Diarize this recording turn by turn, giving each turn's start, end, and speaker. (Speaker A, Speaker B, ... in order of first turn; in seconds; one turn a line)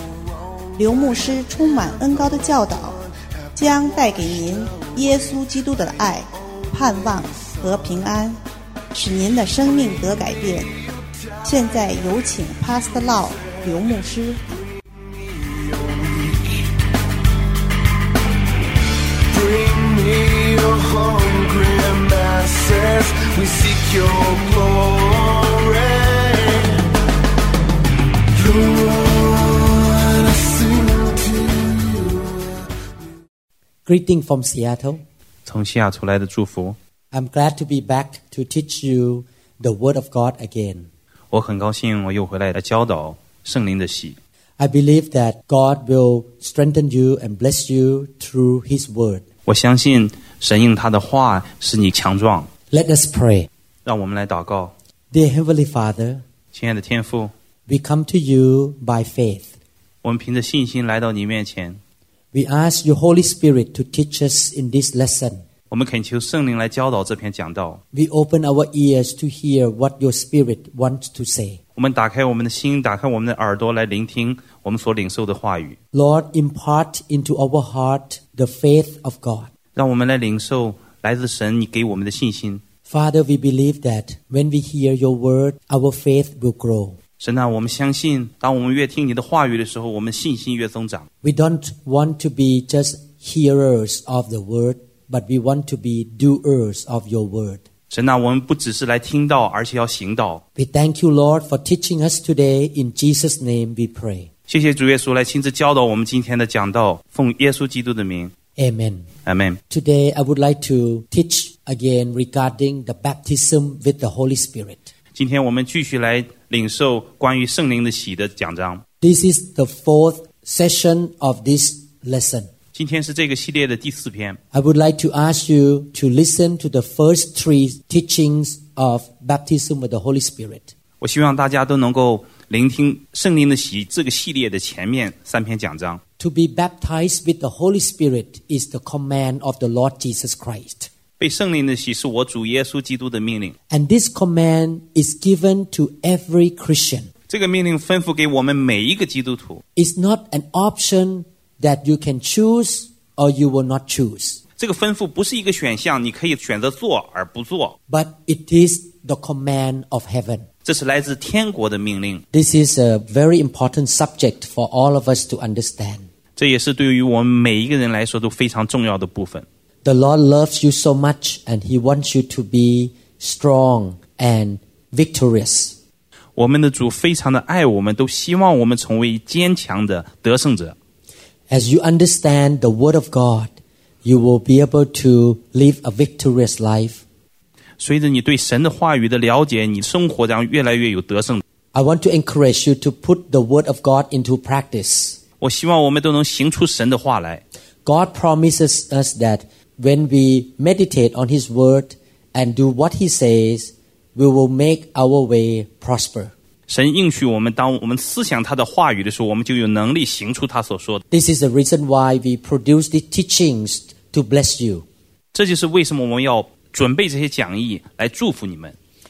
Speaker A: 0.1-0.7
Speaker B: 0.8-3.0
Speaker B: 3.5-8.4
Speaker B: 8.9-10.7
Speaker B: 11.4-14.4
Speaker A: 15.0-16.7
Speaker A: 19.3-27.0
Speaker A: 28.3-32.7
Speaker C: 33.9-35.0
Speaker D: 35.5-36.8
Speaker C: 37.1-40.9
Speaker D: 41.3-44.2
Speaker C: 44.6-49.2
Speaker D: 49.5-52.5
Speaker C: 52.7-53.5
Speaker D: 53.9-54.7
Speaker C: 55.1-56.2
Speaker D: 56.5-57.3
Speaker C: 57.7-59.5
Speaker D: 60.0-61.8
Speaker C: 62.3-65.4
Speaker D: 65.7-67.8
Speaker C: 67.9-71.6
Speaker D: 71.8-75.8
Speaker C: 75.9-79.5
Speaker D: 79.8-82.6
Speaker C: 82.9-87.0
Speaker D: 87.2-91.1
Speaker C: 91.2-97.6
Speaker D: 97.9-100.4
Speaker C: 100.6-104.3
Speaker D: 104.5-108.3
Speaker C: 108.6-109.1
Speaker D: 109.3-109.6
Speaker C: 109.7-114.9
Speaker D: 115.2-118.8
Speaker C: 119.0-122.5
Speaker D: 122.7-124.4
Speaker C: 124.5-130.7
Speaker D: 131.0-136.0
Speaker C: 136.2-140.9
Speaker D: 141.2-143.6
Speaker C: 143.7-147.1
Speaker D: 147.3-149.6
Speaker C: 149.8-154.4
Speaker D: 154.6-157.8
Speaker C: 157.9-160.5
Speaker D: 160.7-162.2
Speaker C: 162.3-166.1
Speaker D: 166.4-169.4
Speaker C: 169.8-175.8
Speaker D: 176.4-180.8
Speaker C: 181.5-183.5
Speaker C: 184.0-187.0
Speaker D: 187.8-191.4
Speaker C: 191.7-195.2
Speaker D: 195.4-197.4
Speaker C: 197.8-206.3
Speaker D: 206.7-211.0
Speaker C: 211.1-214.8
Speaker D: 215.3-218.8